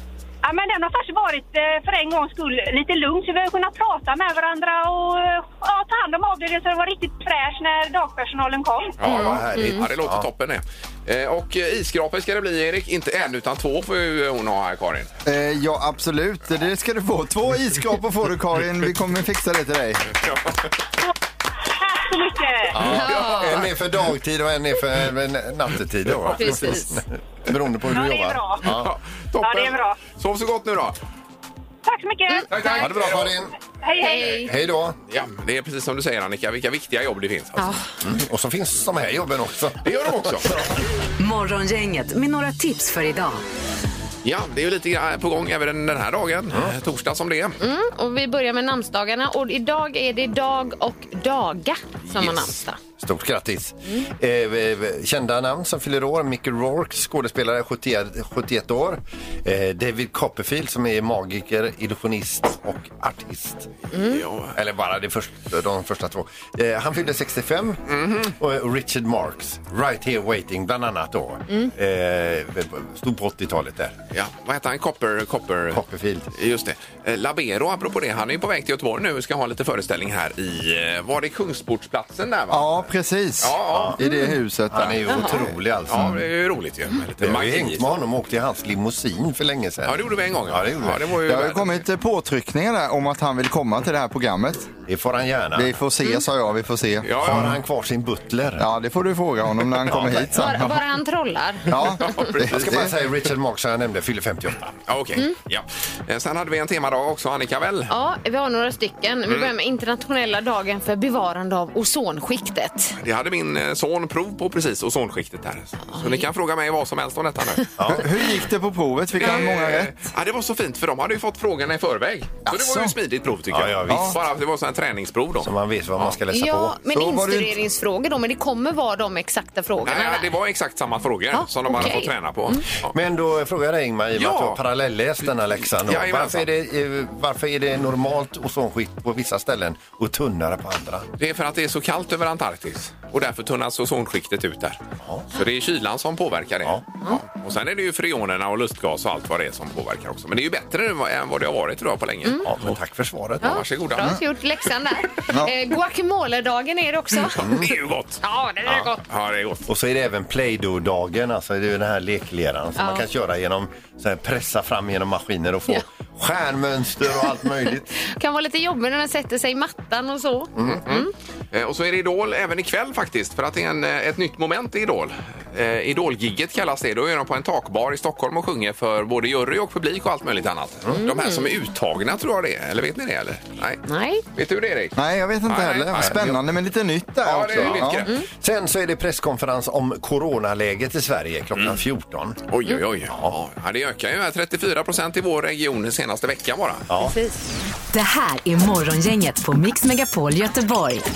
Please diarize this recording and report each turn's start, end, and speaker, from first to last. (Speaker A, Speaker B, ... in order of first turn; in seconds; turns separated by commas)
Speaker A: 0.4-9.0, Speaker B: 9.0-15.1, Speaker C: 9.0-10.3, Speaker D: 9.2-9.8, Speaker E: 15.2-20.1, Speaker A: 21.8-22.8, Speaker C: 22.7-28.9, Speaker D: 22.8-23.7, Speaker D: 26.3-27.0, Speaker A: 27.9-28.8, Speaker B: 28.7-31.0, Speaker A: 29.4-30.0, Speaker A: 31.9-33.0, Speaker B: 32.5-33.4, Speaker C: 32.7-33.5, Speaker A: 33.8-34.5, Speaker D: 34.0-34.5, Speaker C: 34.2-35.0, Speaker B: 35.1-37.8, Speaker D: 37.6-37.8, Speaker C: 38.0-40.6, Speaker B: 39.8-40.6, Speaker F: 41.2-43.4, Speaker B: 44.2-47.6, Speaker D: 47.6-52.8, Speaker B: 52.0-52.6, Speaker C: 53.0-63.7, Speaker D: 63.9-64.2, Speaker B: 64.0-64.6, Speaker C: 64.5-74.0, Speaker B: 67.9-68.3, Speaker B: 74.1-75.8, Speaker C: 75.7-76.3, Speaker B: 76.3-82.9, Speaker E: 82.5-85.0, Speaker B: 83.4-84.0, Speaker C: 83.7-84.0, Speaker D: 84.0-84.3, Speaker C: 84.7-86.2, Speaker D: 85.1-85.4, Speaker B: 85.9-88.0, Speaker C: 87.2-91.1, Speaker B: 89.8-91.8, Speaker E: 91.3-94.7, Speaker C: 94.9-95.8, Speaker E: 95.5-97.2, Speaker B: 97.0-97.6, Speaker C: 97.2-98.7, Speaker E: 98.6-100.8, Speaker D: 100.0-102.3, Speaker E: 101.7-102.9, Speaker C: 102.4-104.7, Speaker B: 104.9-107.9, Speaker D: 107.9-113.0, Speaker B: 113.0-117.7, Speaker D: 115.9-116.3, Speaker C: 117.8-118.1, Speaker E: 117.9-120.1, Speaker B: 119.2-126.2, Speaker D: 119.2-119.5, Speaker E: 122.5-122.9, Speaker C: 123.5-124.2, Speaker E: 123.9-124.2, Speaker C: 125.4-126.8, Speaker D: 126.3-130.3, Speaker E: 126.9-127.5, Speaker B: 129.8-132.9, Speaker D: 131.3-132.6, Speaker C: 132.8-141.1, Speaker B: 134.2-134.6, Speaker B: 135.8-136.5, Speaker B: 141.2-144.8, Speaker B: 145.3-152.7, Speaker C: 152.4-153.6, Speaker B: 153.4-154.2, Speaker D: 153.4-157.7, Speaker B: 157.3-159.6, Speaker C: 157.4-157.6, Speaker D: 158.2-159.0, Speaker C: 159.7-167.9, Speaker D: 162.8-163.1, Speaker D: 168.0-171.1, Speaker C: 170.6-170.8, Speaker B: 170.6-183.8, Speaker D: 180.9-181.5, Speaker D: 183.9-184.2, Speaker B: 184.3-186.4, Speaker E: 185.0-188.0, Speaker B: 187.2-188.2, Speaker C: 187.8-192.4, Speaker B: 191.6-191.8, Speaker B: 192.5-196.9, Speaker C: 193.1-193.4, Speaker C: 196.9-197.2, Speaker D: 197.0-197.4, Speaker F: 197.9-201.1